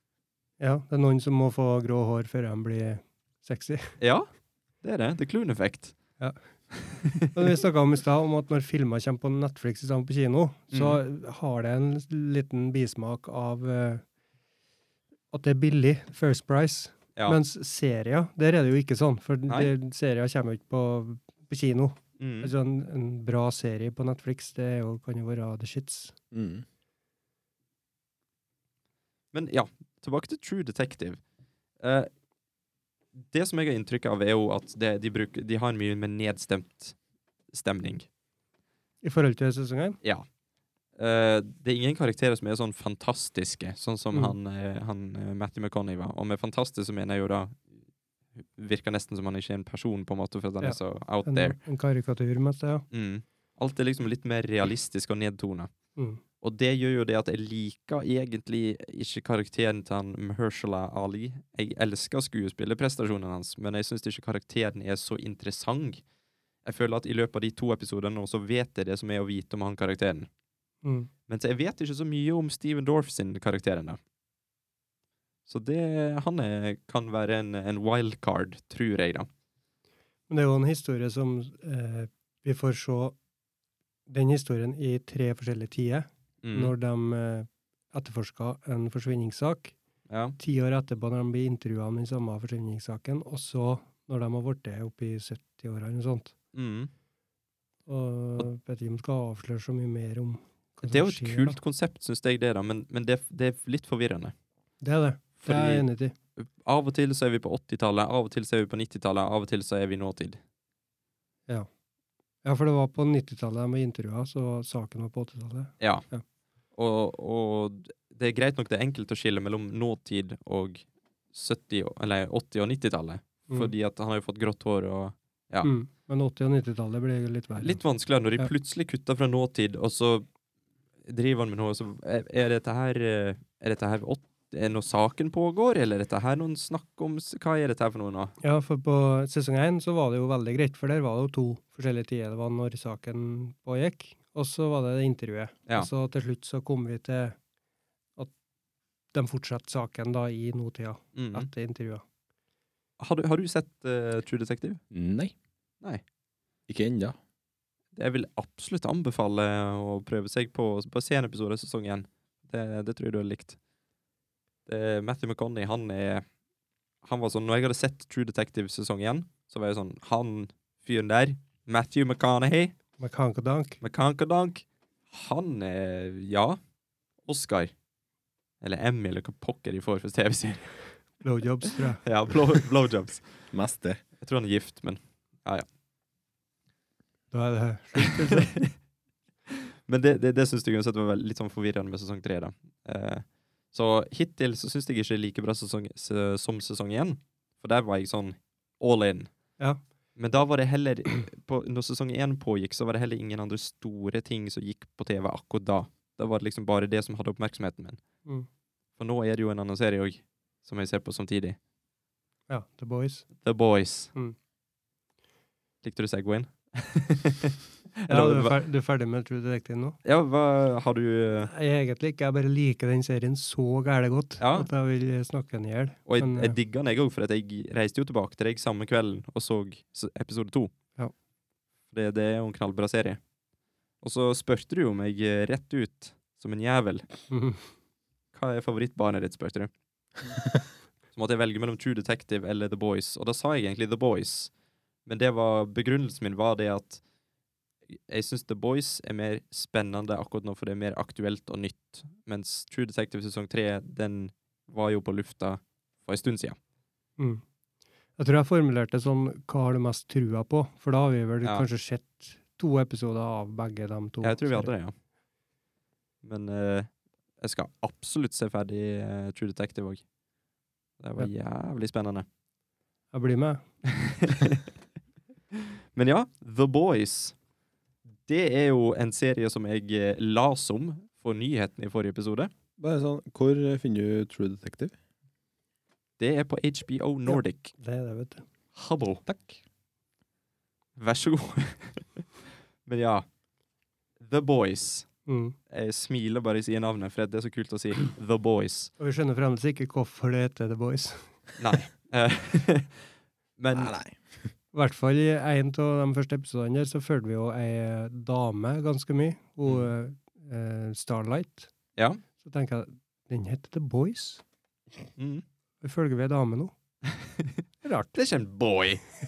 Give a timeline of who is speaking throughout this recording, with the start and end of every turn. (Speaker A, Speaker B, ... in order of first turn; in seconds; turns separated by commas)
Speaker A: 0.6-4.0, Speaker B: 4.0-4.3, Speaker B: 4.8-6.0, Speaker A: 6.2-6.4, Speaker B: 6.9-7.2, Speaker A: 7.2-14.1, Speaker B: 10.7-11.0, Speaker A: 15.3-26.2, Speaker B: 22.2-22.5, Speaker C: 26.3-26.6, Speaker B: 29.3-31.2, Speaker B: 31.8-32.1, Speaker B: 33.3-37.0, Speaker B: 37.5-38.1, Speaker A: 39.0-40.0, Speaker B: 41.0-47.7, Speaker B: 48.4-51.6, Speaker A: 50.6-52.9, Speaker B: 52.9-55.7, Speaker A: 56.0-56.2, Speaker B: 56.4-66.0, Speaker B: 66.7-70.3, Speaker A: 70.8-71.1, Speaker B: 71.3-74.0, Speaker B: 75.5-79.3, Speaker A: 80.3-83.2, Speaker A: 84.1-89.8, Speaker B: 86.4-86.7, Speaker B: 90.1-90.4, Speaker A: 90.4-96.3, Speaker B: 96.5-96.9, Speaker A: 97.9-101.6, Speaker B: 100.8-104.3, Speaker A: 104.8-106.2, Speaker B: 105.4-105.9, Speaker B: 106.4-110.4, Speaker A: 112.4-116.2, Speaker B: 115.8-116.1, Speaker B: 116.7-125.7, Speaker A: 125.6-127.8, Speaker B: 127.6-130.3, Speaker B: 131.0-138.3, Speaker A: 138.4-147.4, Speaker A: 149.1-152.0, Speaker B: 151.2-151.5, Speaker B: 153.0-154.8, Speaker C: 154.9-155.3, Speaker C: 156.7-157.2, Speaker B: 157.9-163.6, Speaker B: 164.7-166.3, Speaker B: 167.0-172.8, Speaker A: 173.0-173.8, Speaker B: 173.8-176.6, Speaker B: 177.3-177.7, Speaker B: 178.6-181.0, Speaker A: 181.2-182.0, Speaker B: 182.0-183.4, Speaker C: 183.5-184.0, Speaker B: 184.2-185.7, Speaker A: 187.3-188.5, Speaker B: 188.1-188.7, Speaker B: 189.5-199.3, Speaker B: 200.2-208.0, Speaker B: 209.0-211.6, Speaker A: 212.5-213.3, Speaker B: 213.4-214.1, Speaker B: 215.8-218.6, Speaker A: 218.1-220.0, Speaker B: 220.0-221.5, Speaker A: 221.5-226.6, Speaker B: 224.4-224.7, Speaker B: 226.1-230.7, Speaker B: 231.9-233.2, Speaker B: 234.0-237.1, Speaker A: 237.3-237.7, Speaker B: 238.3-239.7, Speaker B: 241.1-244.5, Speaker B: 245.1-247.0, Speaker B: 247.9-256.6, Speaker A: 257.2-257.4, Speaker A: 258.2-264.7, Speaker B: 264.2-264.9, Speaker B: 266.2-270.1, Speaker B: 271.0-272.3, Speaker A: 273.1-273.6, Speaker B: 273.9-274.6, Speaker B: 275.9-277.4, Speaker B: 278.3-282.5, Speaker C: 282.8-284.9, Speaker B: 286.2-287.7, Speaker A: 287.3-288.4, Speaker B: 288.8-289.2, Speaker C: 289.3-289.6, Speaker B: 291.0-292.3, Speaker B: 292.9-293.3, Speaker B: 294.2-295.2, Speaker A: 295.3-295.6, Speaker B: 295.7-298.9, Speaker A: 299.0-301.4, Speaker B: 301.6-303.0, Speaker B: 303.6-304.0, Speaker C: 303.7-304.5, Speaker A: 304.7-311.7, Speaker B: 309.6-309.9, Speaker A: 312.4-314.4, Speaker B: 315.2-315.4, Speaker A: 315.8-316.7, Speaker B: 317.2-317.6, Speaker A: 317.8-318.2, Speaker B: 318.1-319.0